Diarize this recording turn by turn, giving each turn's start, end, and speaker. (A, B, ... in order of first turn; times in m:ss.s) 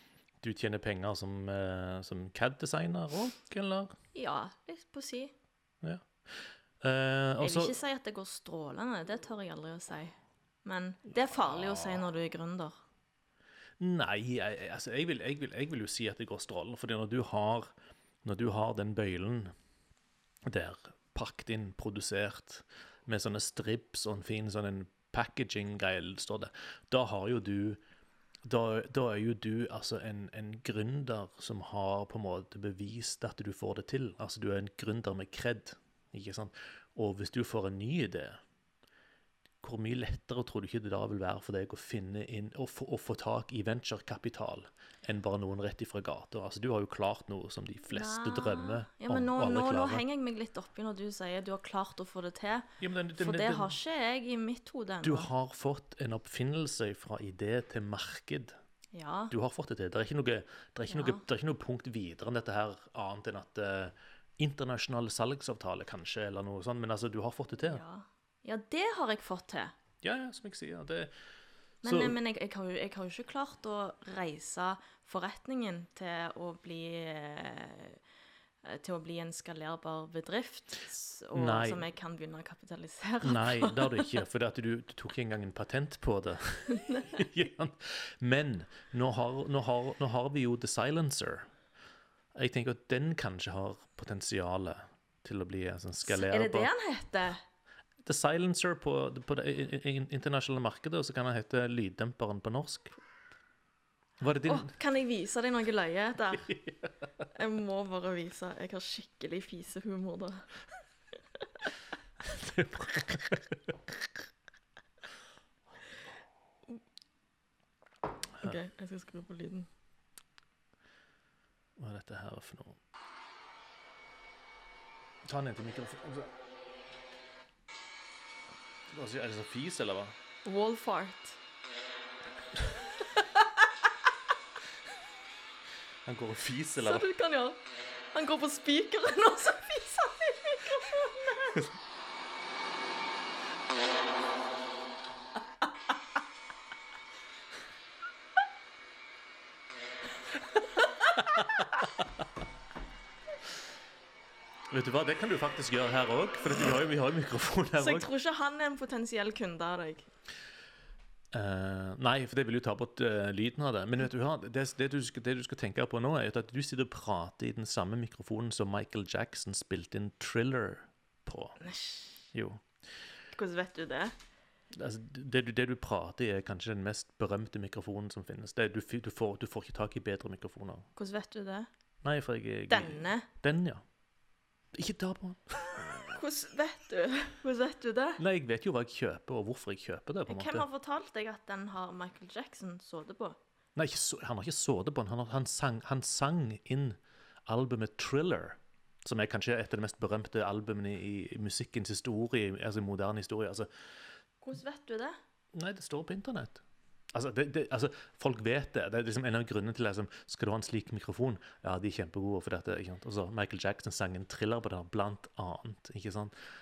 0:00.4-0:03.9 A
0:04.1-0:05.3 B
0:05.8-0:07.7 A
0:07.4-0:12.8 B
0:11.4-0:12.0 A
0:13.8-0:17.7 A
0:18.2-0:19.5 A
0:20.4-0:27.8 A
0:28.4-0:38.4 A
0:39.6-0:50.0 A
0:47.9-0:55.3 B
0:52.8-0:53.7 A
0:55.0-0:58.6 A
0:58.9-0:59.3 B
0:59.3-1:07.8 A
1:00.9-1:01.2 B
1:07.6-1:09.7 B
1:10.0-1:11.1 A
1:11.8-1:18.0 B
1:11.8-1:12.2 A
1:18.6-1:24.1 B
1:21.3-1:21.9 A
1:23.2-1:31.5 A
1:26.7-1:27.2 B
1:32.3-1:36.7 A
1:36.0-1:37.4 B
1:38.0-1:42.9 A
1:44.2-1:44.7 A
1:44.4-1:46.5 B
1:46.4-1:46.9 A
1:47.3-1:50.5 B
1:52.2-1:54.0 A
1:58.4-1:59.7 B
2:01.8-2:02.8 A
2:05.2-2:06.3 A
2:08.9-2:10.2 A
2:10.4-2:11.4 B
2:13.2-2:13.6 B
2:16.0-2:17.0 A
2:16.8-2:17.6 B
2:18.1-2:21.6 B
2:30.8-2:31.6 B
2:31.1-2:32.0 A
2:34.7-2:38.1 A
2:37.8-2:40.1 B
2:41.3-2:51.6 A
2:51.6-2:52.2 B
2:52.3-2:52.6 A
2:53.3-2:54.1 B
2:54.7-3:00.9 A
3:01.0-3:01.7 B
3:02.0-3:03.8 A
3:02.7-3:03.3 B
3:04.7-3:06.2 A
3:06.1-3:08.2 B
3:08.2-3:10.6 A
3:10.3-3:13.4 B
3:13.7-3:23.7 A
3:24.4-3:25.2 B
3:25.5-3:26.6 A
3:27.1-3:36.3 A